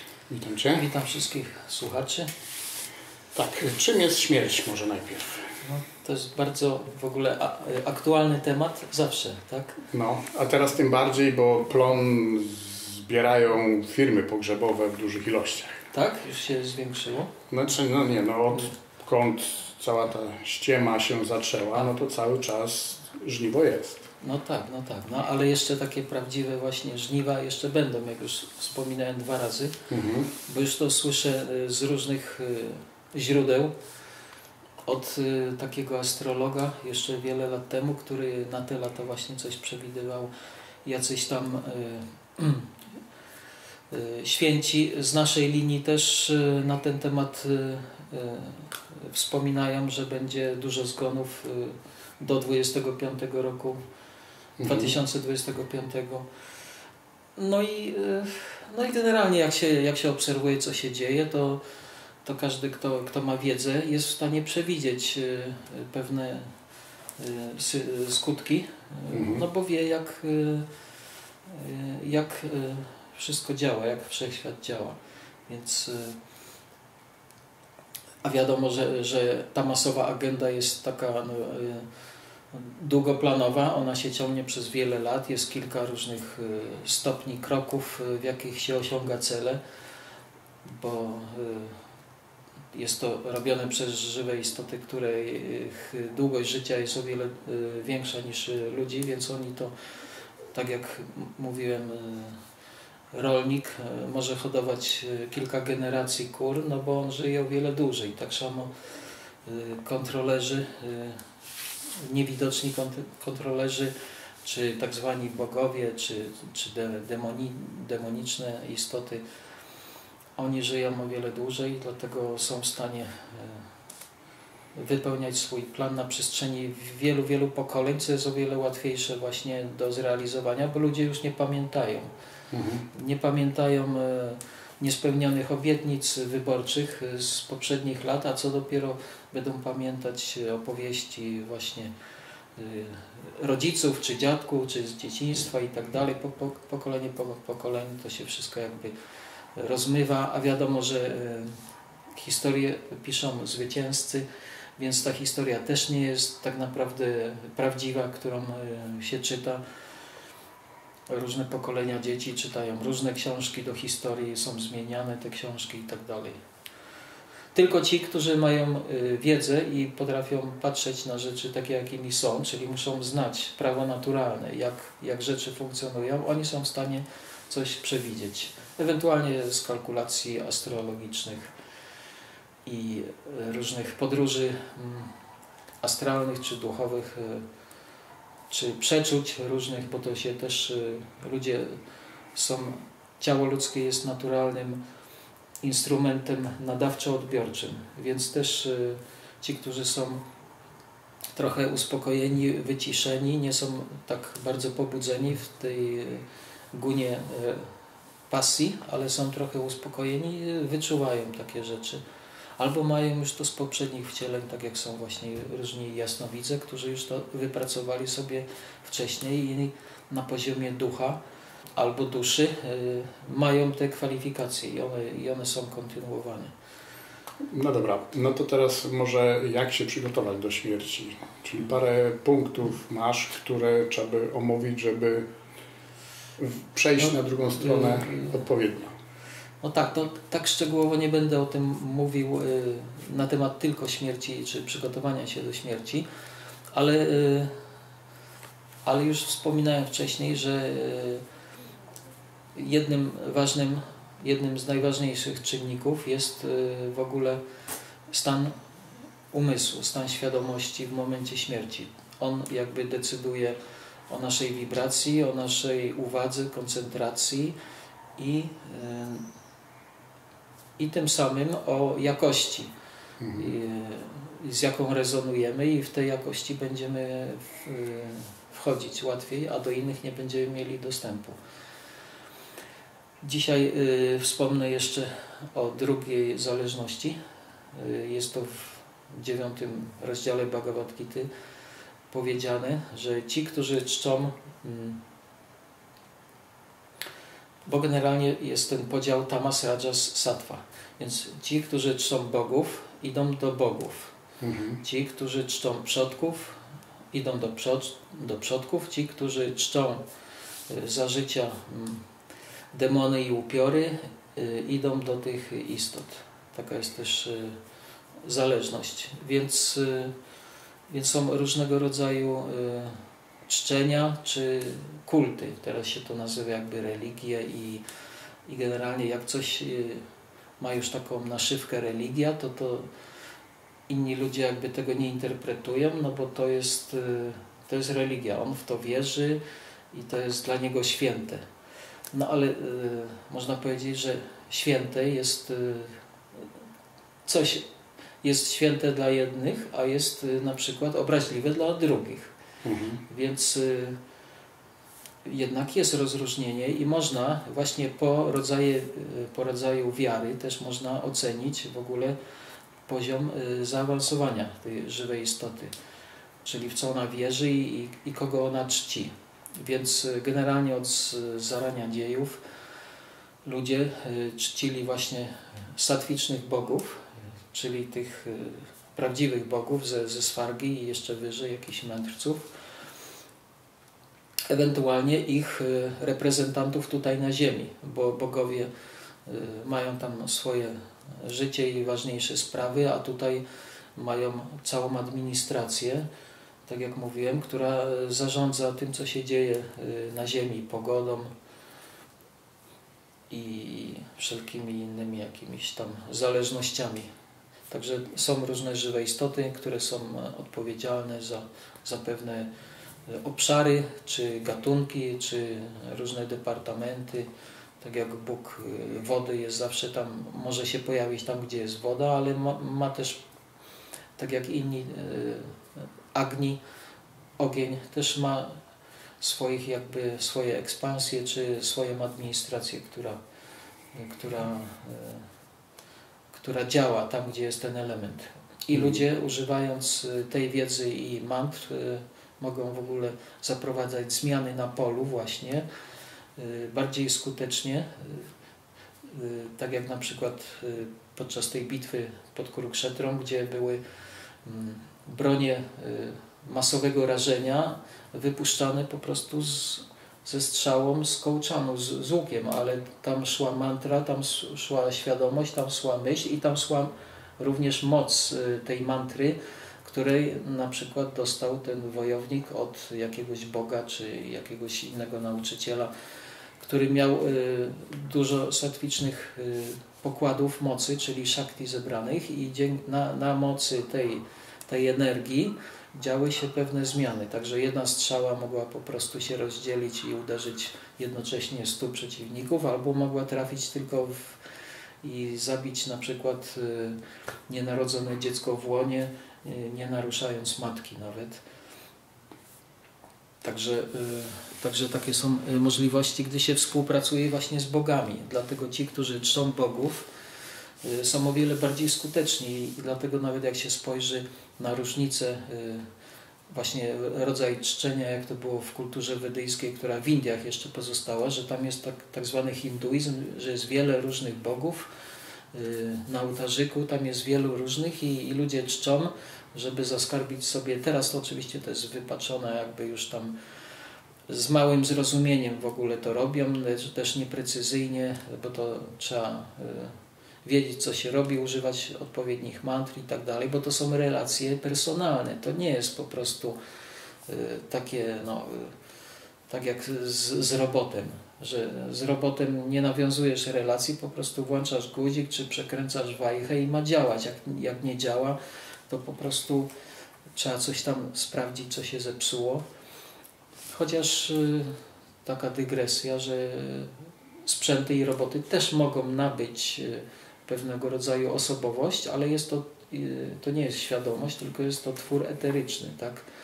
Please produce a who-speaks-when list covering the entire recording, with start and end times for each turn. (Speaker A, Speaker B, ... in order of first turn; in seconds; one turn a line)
Speaker A: 0.3-0.9
Speaker B: 0.7-2.3
Speaker A: 3.3-5.5
Speaker B: 5.6-9.8
Speaker A: 9.9-15.9
Speaker B: 15.9-17.3
Speaker A: 17.5-24.1
Speaker B: 24.2-29.8
Speaker A: 29.9-30.3
Speaker B: 30.4-33.7
Speaker B: 34.9-40.3
Speaker B: 40.9-42.7
Speaker B: 43.9-53.8
Speaker A: 54.6-54.9
Speaker B: 54.6-56.3
Speaker B: 57.4-61.6
Speaker B: 62.2-66.5
Speaker B: 67.2-70.7
Speaker A: 69.1-69.4
Speaker B: 71.5-75.0
Speaker B: 75.5-76.2
Speaker B: 78.2-81.9
Speaker B: 82.5-89.6
Speaker B: 90.6-91.8
Speaker B: 92.7-99.7
Speaker B: 100.5-102.4
Speaker B: 103.1-108.7
Speaker B: 109.5-111.2
Speaker B: 112.0-113.9
Speaker B: 114.4-119.2
Speaker B: 120.4-123.7
Speaker B: 124.8-132.1
Speaker A: 132.5-132.9
Speaker B: 132.9-141.9
Speaker B: 142.6-148.9
Speaker B: 149.6-151.6
Speaker B: 152.2-154.3
Speaker B: 154.8-159.6
Speaker B: 161.1-166.4
Speaker B: 167.5-181.5
Speaker B: 182.7-185.1
Speaker B: 185.8-187.4
Speaker B: 188.5-191.8
Speaker B: 192.3-194.8
Speaker B: 195.6-200.2
Speaker B: 201.4-207.7
Speaker B: 208.3-212.0
Speaker B: 212.6-221.2
Speaker B: 221.8-226.5
Speaker A: 227.5-235.3
Speaker A: 236.4-238.9
Speaker B: 237.0-238.4
Speaker B: 239.6-246.1
Speaker B: 246.7-247.5
Speaker B: 248.8-251.2
Speaker B: 252.6-257.4
Speaker B: 258.1-258.5
Speaker B: 259.3-263.6
Speaker B: 264.1-267.6
Speaker B: 268.2-269.3
Speaker B: 270.8-272.7
Speaker A: 273.2-273.5
Speaker B: 273.4-281.4
Speaker B: 283.2-287.2
Speaker B: 287.7-291.3
Speaker B: 292.1-295.0
Speaker B: 297.7-304.1
Speaker A: 304.4-304.8
Speaker B: 304.8-306.6
Speaker B: 307.1-310.0
Speaker B: 310.7-312.0
Speaker B: 312.7-317.6
Speaker B: 318.2-320.1
Speaker B: 320.9-327.8
Speaker B: 328.5-330.0
Speaker B: 330.6-332.9
Speaker B: 333.9-339.4
Speaker B: 339.9-341.4
Speaker B: 342.1-346.4
Speaker B: 347.3-347.6
Speaker B: 348.2-352.3
Speaker A: 352.6-353.0
Speaker B: 353.1-354.0
Speaker B: 355.2-362.2
Speaker B: 362.9-365.7
Speaker B: 366.4-372.4
Speaker B: 373.4-382.4
Speaker B: 384.5-388.7
Speaker B: 389.3-393.4
Speaker B: 394.0-396.1
Speaker B: 396.7-401.3
Speaker B: 403.3-407.1
Speaker B: 407.7-412.5
Speaker B: 413.1-417.3
Speaker B: 417.8-423.2
Speaker B: 424.2-426.6
Speaker B: 427.4-428.6
Speaker B: 429.2-433.2
Speaker B: 433.9-435.3
Speaker B: 436.3-445.6
Speaker B: 446.4-448.3
Speaker B: 449.1-453.8
Speaker B: 454.4-475.9
Speaker B: 476.6-494.4
Speaker B: 495.0-501.4
Speaker B: 503.4-510.1
Speaker B: 510.8-515.9
Speaker B: 516.5-524.9
Speaker B: 525.5-533.3
Speaker B: 534.3-546.6
Speaker B: 547.3-548.7
Speaker B: 549.5-558.4
Speaker B: 558.9-559.7
Speaker B: 560.4-562.6
Speaker B: 563.7-576.3